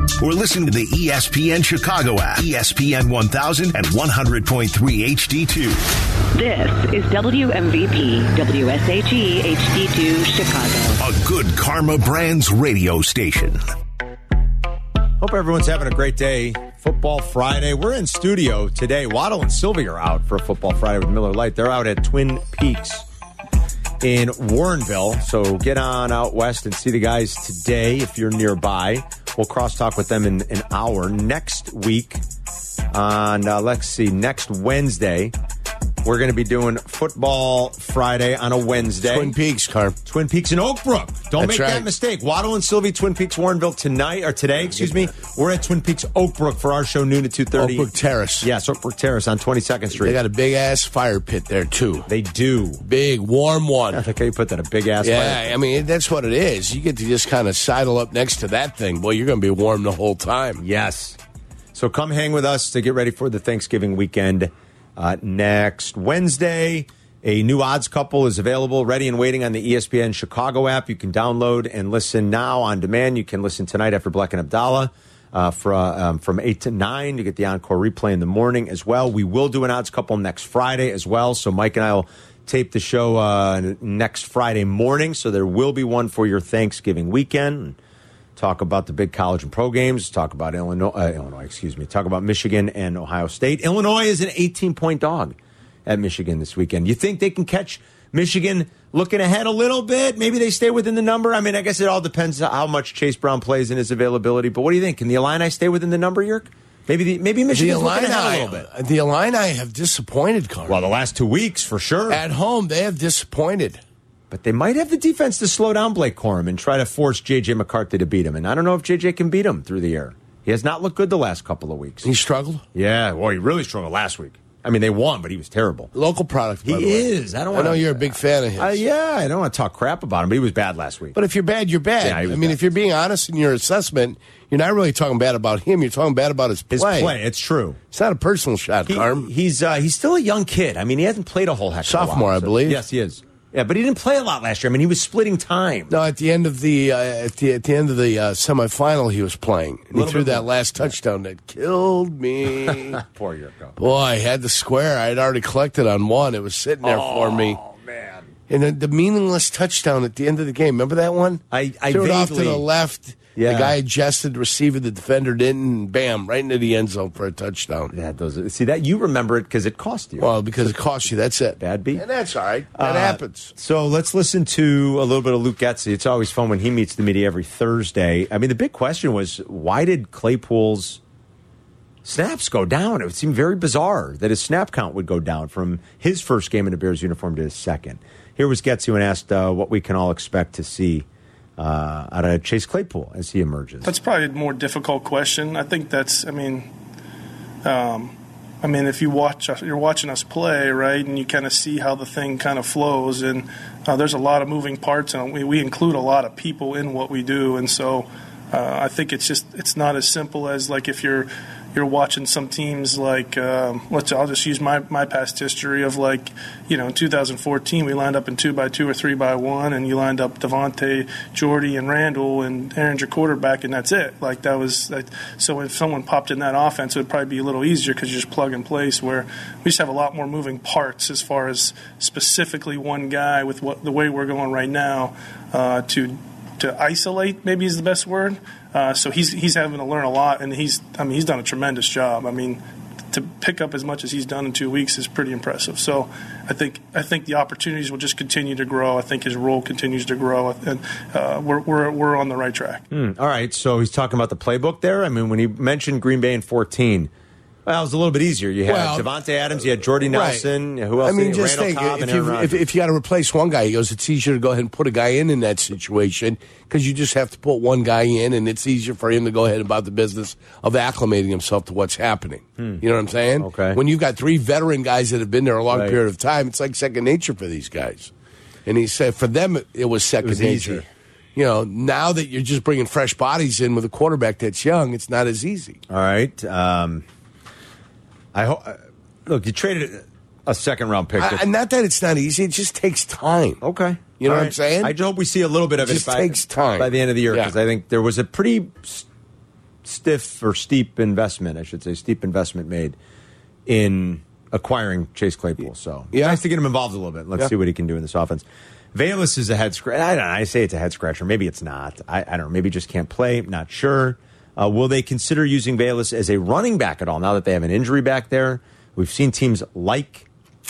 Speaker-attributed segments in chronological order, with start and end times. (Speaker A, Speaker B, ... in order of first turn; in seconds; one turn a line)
Speaker A: 0.2-5.8
Speaker B: 6.3-11.0
Speaker A: 11.0-13.6
Speaker C: 15.2-23.1
Speaker C: 24.0-32.2
Speaker C: 32.9-35.3
Speaker C: 36.0-39.3
Speaker D: 39.0-40.0
Speaker C: 40.0-50.2
Speaker D: 41.4-41.9
Speaker D: 47.5-48.5
Speaker D: 50.0-52.1
Speaker C: 52.1-52.8
Speaker D: 52.8-54.0
Speaker C: 53.9-55.5
Speaker D: 55.0-60.6
Speaker C: 60.6-61.2
Speaker C: 61.7-87.8
Speaker C: 88.3-108.7
Speaker D: 107.5-110.8
Speaker C: 110.7-112.2
Speaker D: 112.1-113.8
Speaker C: 114.3-122.1
Speaker D: 122.0-122.6
Speaker C: 122.7-125.9
Speaker D: 125.9-128.8
Speaker C: 126.6-131.2
Speaker D: 131.1-137.1
Speaker C: 132.0-132.6
Speaker C: 136.7-137.8
Speaker D: 137.9-139.3
Speaker C: 138.9-145.9
Speaker D: 141.8-142.8
Speaker D: 145.9-153.0
Speaker C: 149.9-150.9
Speaker C: 152.7-153.8
Speaker D: 153.8-157.6
Speaker C: 156.8-158.3
Speaker D: 158.5-167.9
Speaker C: 161.5-162.7
Speaker C: 163.3-163.8
Speaker C: 167.9-171.1
Speaker D: 170.2-173.5
Speaker C: 171.6-172.1
Speaker C: 172.7-181.0
Speaker C: 182.0-193.9
Speaker E: 193.8-196.7
Speaker E: 197.6-242.6
Speaker E: 243.1-252.8
Speaker C: 252.9-257.1
Speaker C: 257.6-262.6
Speaker D: 258.7-259.1
Speaker D: 260.1-260.5
Speaker D: 261.0-278.1
Speaker C: 273.4-273.8
Speaker C: 275.7-276.0
Speaker D: 278.6-285.8
Speaker C: 280.2-280.9
Speaker C: 285.9-287.0
Speaker C: 288.3-291.4
Speaker D: 291.2-293.6
Speaker C: 293.6-299.1
Speaker D: 294.2-294.9
Speaker D: 295.8-297.5
Speaker C: 299.8-302.9
Speaker C: 303.6-320.3
Speaker D: 306.1-306.4